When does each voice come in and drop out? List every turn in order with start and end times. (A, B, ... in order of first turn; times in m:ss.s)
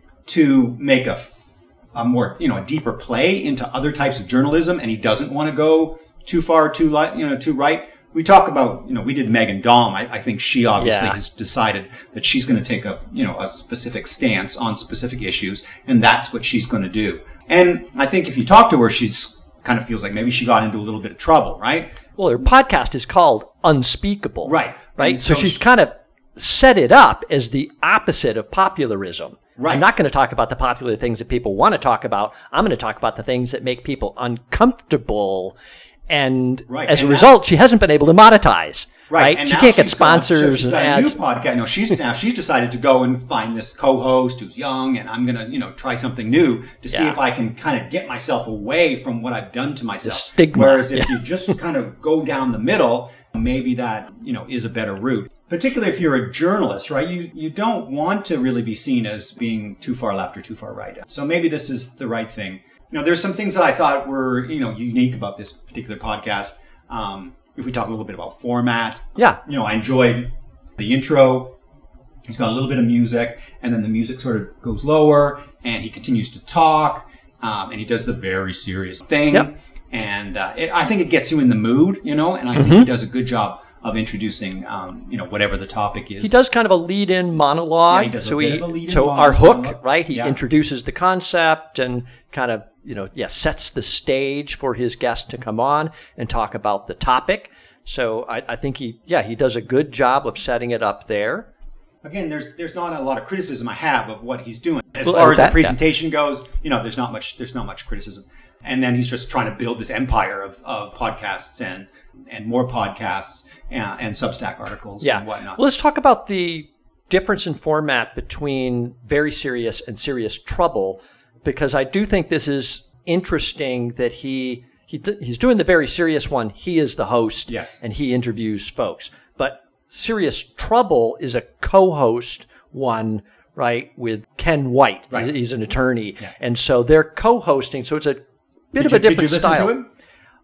0:00.2-0:22.0 A
0:10.8-0:11.2 B
0:22.2-0:35.6 B
0:24.4-0:25.6 A
0:29.6-0:29.8 A
0:36.1-0:41.2 B
0:36.7-0:37.3 A
0:39.1-1:11.6 A
0:46.9-0:47.2 B
0:50.0-0:51.2 B
1:12.3-1:26.3 A
1:22.5-1:22.9 B
1:26.2-1:41.5 B
1:27.9-1:30.4 A
1:42.0-1:55.6 A
1:45.0-1:45.8 B
1:55.0-2:19.7 B
2:07.5-2:07.8 A
2:18.8-2:19.9 A